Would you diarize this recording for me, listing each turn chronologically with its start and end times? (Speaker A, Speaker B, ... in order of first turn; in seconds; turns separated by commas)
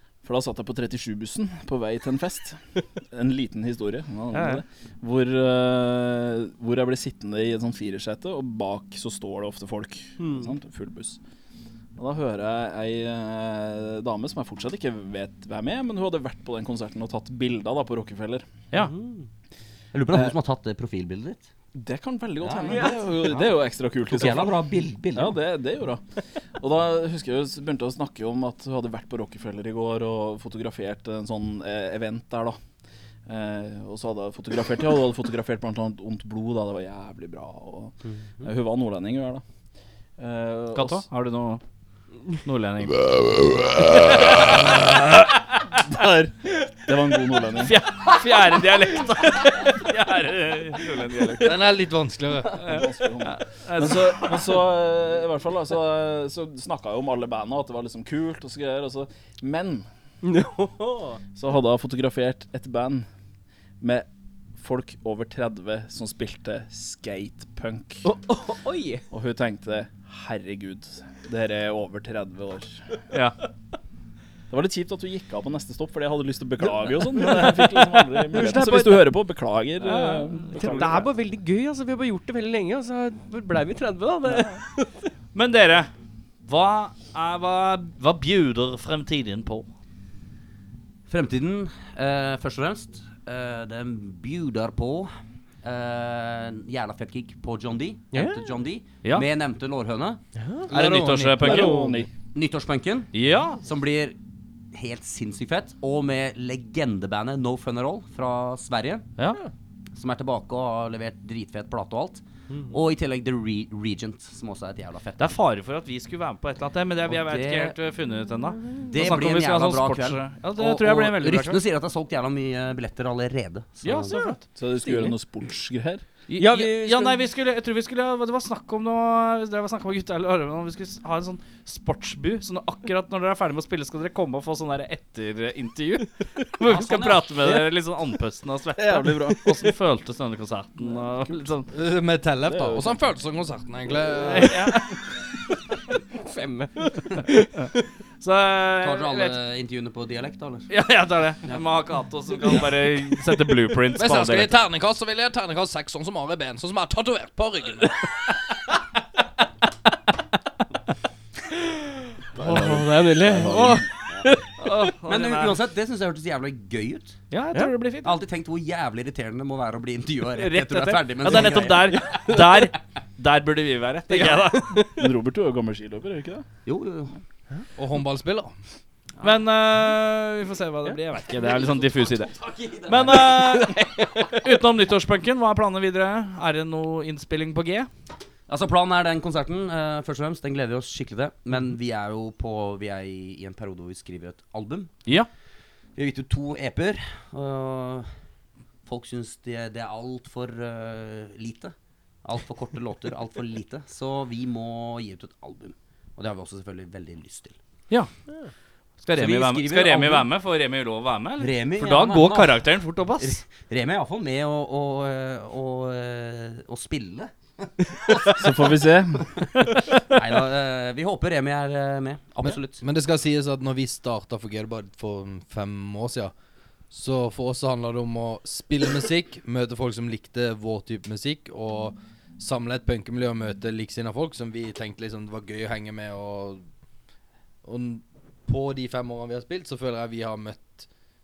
Speaker A: 0.2-11.2, Speaker B: 4.3-4.6, Speaker C: 10.2-10.5, Speaker A: 12.0-18.4, Speaker C: 18.8-19.3, Speaker D: 19.9-21.5, Speaker A: 21.7-24.6, Speaker D: 22.4-23.5, Speaker C: 22.7-23.3, Speaker D: 24.1-25.4, Speaker A: 25.1-26.0, Speaker A: 26.6-32.6, Speaker A: 33.3-39.4, Speaker A: 40.2-41.0, Speaker B: 40.7-41.6, Speaker B: 42.4-44.8, Speaker A: 45.8-47.7, Speaker B: 47.6-51.6, Speaker E: 51.4-52.6, Speaker B: 52.6-54.5, Speaker A: 52.6-59.9, Speaker C: 60.2-61.2, Speaker A: 61.3-63.0, Speaker A: 63.8-68.1, Speaker C: 68.0-69.0, Speaker A: 69.1-72.8, Speaker A: 74.5-81.1, Speaker C: 76.6-79.0, Speaker B: 79.8-80.9, Speaker C: 79.9-84.9, Speaker B: 85.3-85.9, Speaker B: 86.4-89.7, Speaker D: 91.1-95.1, Speaker D: 95.6-100.2, Speaker C: 98.1-98.4, Speaker C: 100.4-100.7, Speaker E: 100.7-101.4, Speaker B: 100.7-101.8, Speaker A: 101.4-102.1, Speaker C: 101.4-102.0, Speaker D: 102.3-104.2, Speaker B: 103.1-103.6, Speaker D: 104.7-109.1, Speaker D: 109.9-115.3, Speaker C: 112.5-112.8, Speaker B: 115.2-121.6, Speaker D: 117.1-117.8, Speaker D: 118.9-124.2, Speaker B: 123.8-124.4, Speaker C: 124.1-125.2, Speaker A: 124.5-126.0, Speaker B: 126.3-141.7, Speaker C: 126.3-127.2, Speaker D: 136.6-137.3, Speaker A: 138.8-139.7, Speaker A: 140.8-141.5, Speaker E: 141.7-144.8, Speaker A: 142.4-143.0, Speaker B: 144.2-144.9, Speaker C: 146.2-147.5, Speaker B: 148.2-149.3, Speaker D: 148.8-150.7, Speaker B: 150.7-154.5, Speaker E: 153.9-158.0, Speaker A: 162.3-163.9, Speaker C: 162.4-164.4, Speaker B: 164.6-165.6, Speaker D: 165.1-167.2, Speaker B: 167.3-168.2, Speaker D: 168.0-172.6, Speaker B: 170.4-174.8, Speaker C: 171.9-172.5, Speaker C: 174.1-175.1, Speaker A: 174.9-176.4, Speaker D: 176.7-177.1, Speaker E: 177.8-178.5, Speaker B: 179.2-182.3, Speaker D: 181.5-183.6, Speaker B: 182.8-187.9, Speaker C: 183.3-184.3, Speaker D: 188.5-194.9, Speaker D: 195.9-198.1, Speaker D: 198.8-207.6, Speaker B: 209.0-213.4, Speaker D: 209.1-210.3, Speaker D: 211.4-218.7, Speaker A: 218.3-219.3, Speaker D: 220.1-222.8, Speaker E: 222.4-226.3, Speaker E: 226.9-236.6, Speaker E: 237.6-240.9